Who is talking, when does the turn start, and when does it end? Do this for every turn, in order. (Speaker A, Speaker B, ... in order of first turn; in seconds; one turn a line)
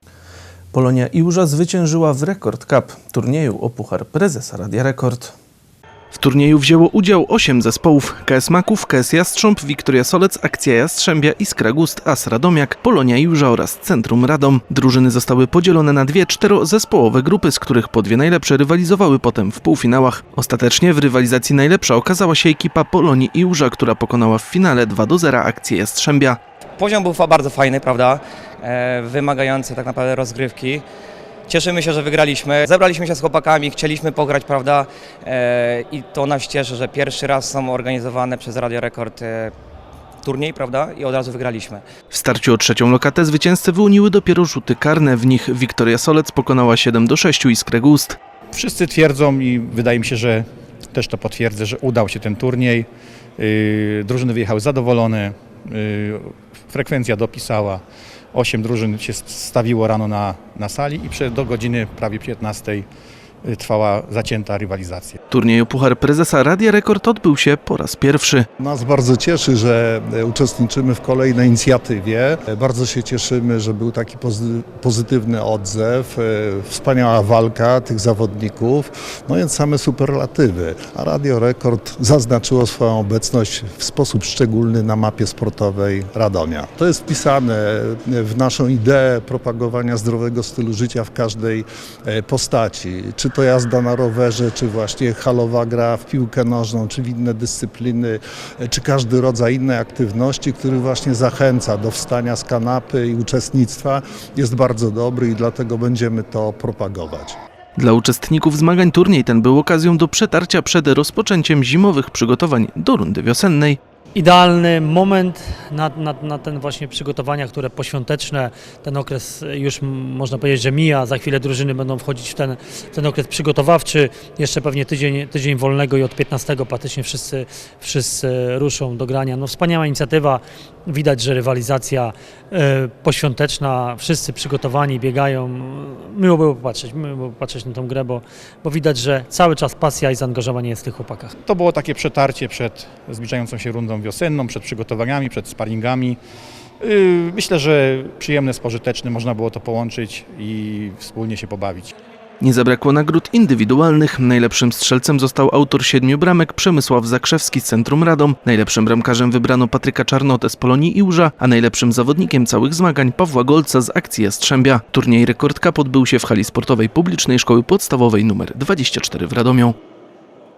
Speaker A: 0.7-5.3
Speaker A: 6.1-26.4
Speaker B: 26.8-30.8
Speaker B: 31.5-39.5
Speaker B: 40.2-41.8
Speaker A: 42.1-48.2
Speaker C: 48.5-57.8
Speaker C: 58.3-62.9
Speaker C: 63.4-65.2
Speaker A: 65.3-68.5
Speaker D: 68.6-107.3
Speaker A: 107.8-113.8
Speaker E: 114.1-141.3
Speaker C: 141.4-146.2
Speaker C: 146.8-151.9
Speaker A: 152.4-169.8